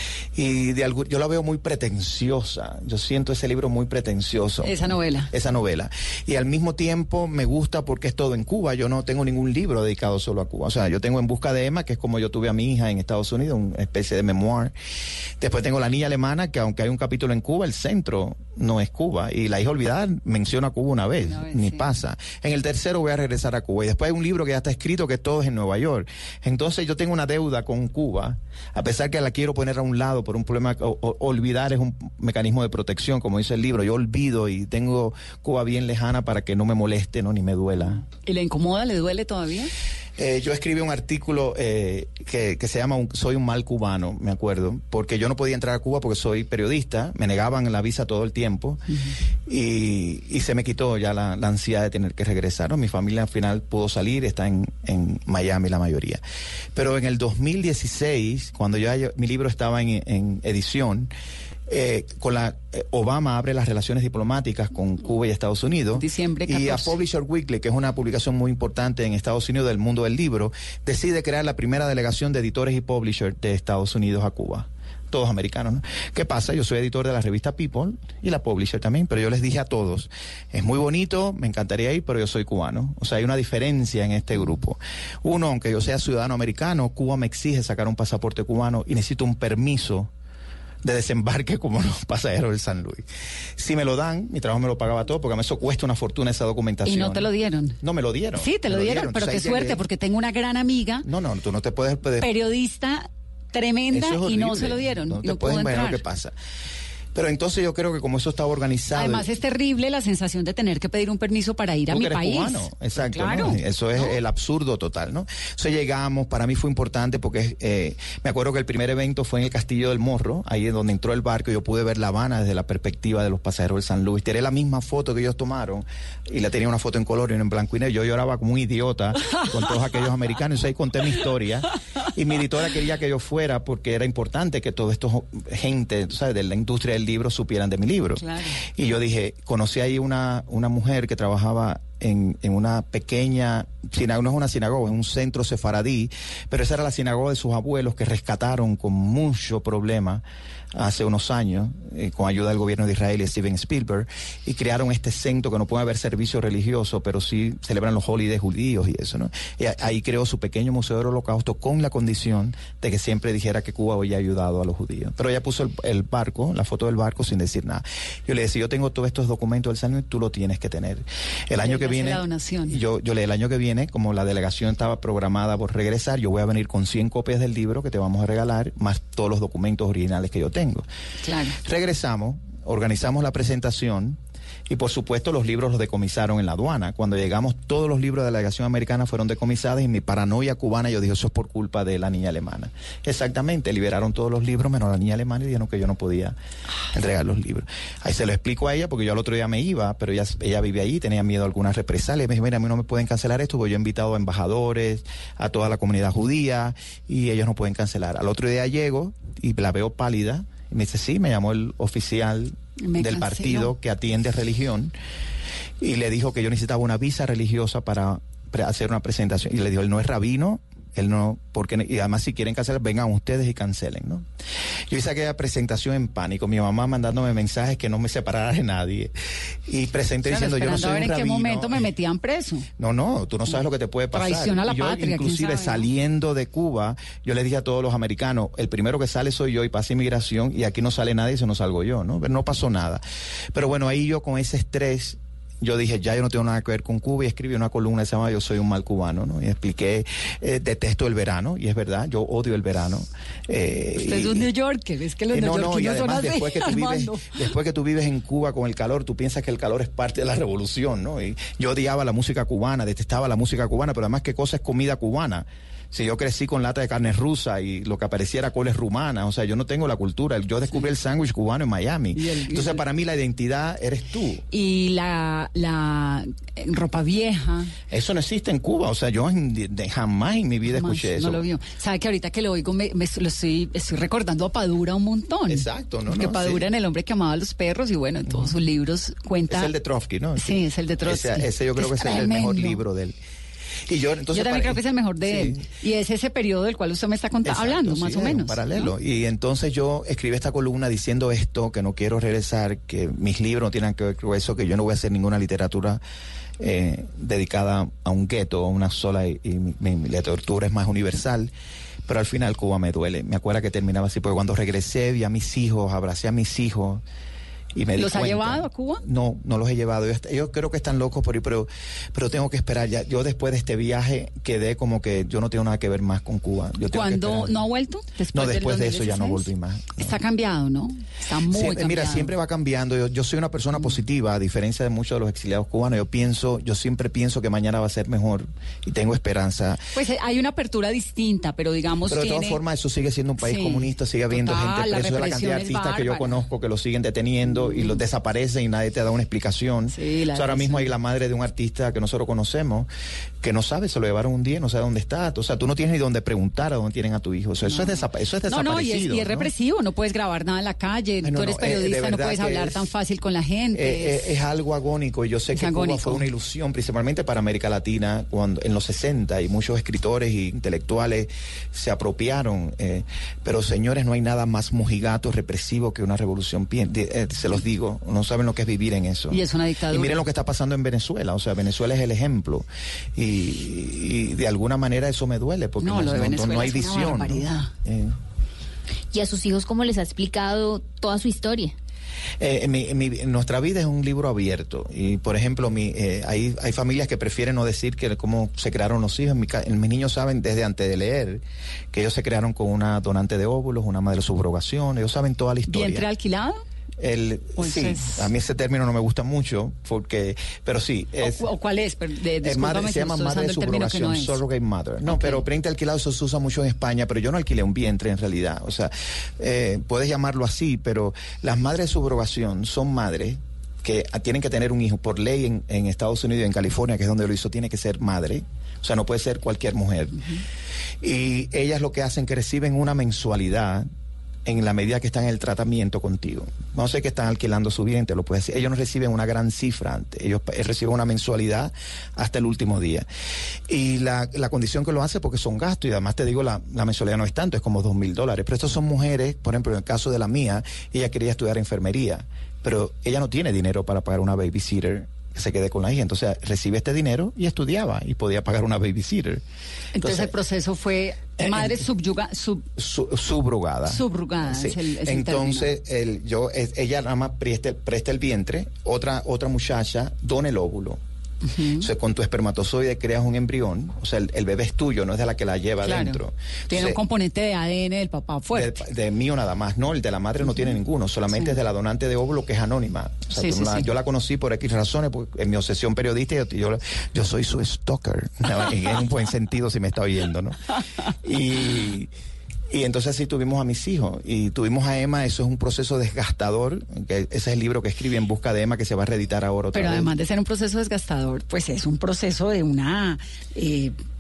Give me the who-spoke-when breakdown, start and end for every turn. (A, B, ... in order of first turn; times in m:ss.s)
0:00.4-0:04.8 A
0:04.6-0:05.3 B
0:05.3-0:14.7 A
0:15.4-0:38.0 A
0:21.2-0:21.9 B
0:37.9-0:39.7 B
0:40.2-0:48.8 A
0:49.5-0:56.2 A
0:56.8-1:01.1 A
1:01.7-1:30.1 A
1:06.0-1:06.9 B
1:30.8-1:33.0 A
1:33.6-1:37.3 A
1:36.8-1:37.8 B
1:37.8-1:39.8 A
1:38.4-1:41.1 B
1:41.0-1:42.3 A
1:42.2-1:46.0 B
1:43.9-1:46.4 A
1:47.1-1:49.3 A
1:49.0-1:54.2 B
1:51.9-2:18.2 A
2:18.2-2:18.6 B
2:18.8-3:00.9 A
2:51.6-2:52.8 B
3:01.2-3:01.6 B
3:01.6-3:16.4 A
3:16.9-3:34.9 A
3:32.8-3:33.7 B
3:35.8-3:44.3 A
3:44.9-3:49.1 A
3:49.7-3:51.9 A
3:50.3-3:52.7 B
3:52.8-4:14.5 A
3:54.1-3:55.9 B
4:14.0-4:17.4 B
4:15.3-4:34.4 A
4:32.2-4:32.8 B
4:34.5-4:37.7 B
4:37.9-4:41.4 A
4:40.7-4:49.7 B
4:45.5-4:46.6 A
4:49.5-4:53.2 A
4:50.4-4:52.8 B
4:53.9-4:55.6 A
4:54.3-4:58.9 B
4:57.4-5:06.0 A
5:06.6-5:11.5 A
5:12.1-5:17.0 A
5:17.7-5:27.6 A
5:18.0-5:19.0 B
5:26.9-5:32.3 B
5:28.3-5:30.2 A
5:31.5-5:39.9 A
5:40.0-5:42.6 B
5:42.1-5:52.9 A
5:43.4-5:46.4 B
5:47.6-5:48.0 B
5:49.9-5:50.9 B
5:53.4-5:59.5 A
5:57.6-6:04.3 B
6:01.2-6:02.9 A
6:03.7-6:28.2 A
6:05.5-6:06.3 B
6:19.3-6:20.2 B
6:25.8-6:27.7 B
6:29.1-6:31.7 C
6:32.4-6:46.1 A
6:45.7-6:46.6 B
6:47.0-6:51.4 A
6:47.6-6:48.3 B
6:51.2-6:54.4 B
6:52.4-7:10.2 A
6:55.0-6:55.4 B
7:11.0-7:13.9 A
7:14.4-7:23.1 A
7:23.7-7:39.4 A
7:40.0-7:42.7 B
7:40.0-7:40.3 A
7:41.4-7:41.8 A
7:42.8-7:51.0 A
7:43.9-7:45.7 B
7:51.4-7:51.9 B
7:51.8-7:57.0 A
7:55.8-7:58.8 B
7:58.5-8:10.6 A
8:03.4-8:03.9 B
8:11.2-8:12.1 A
8:12.7-8:20.1 A
8:19.7-8:24.0 B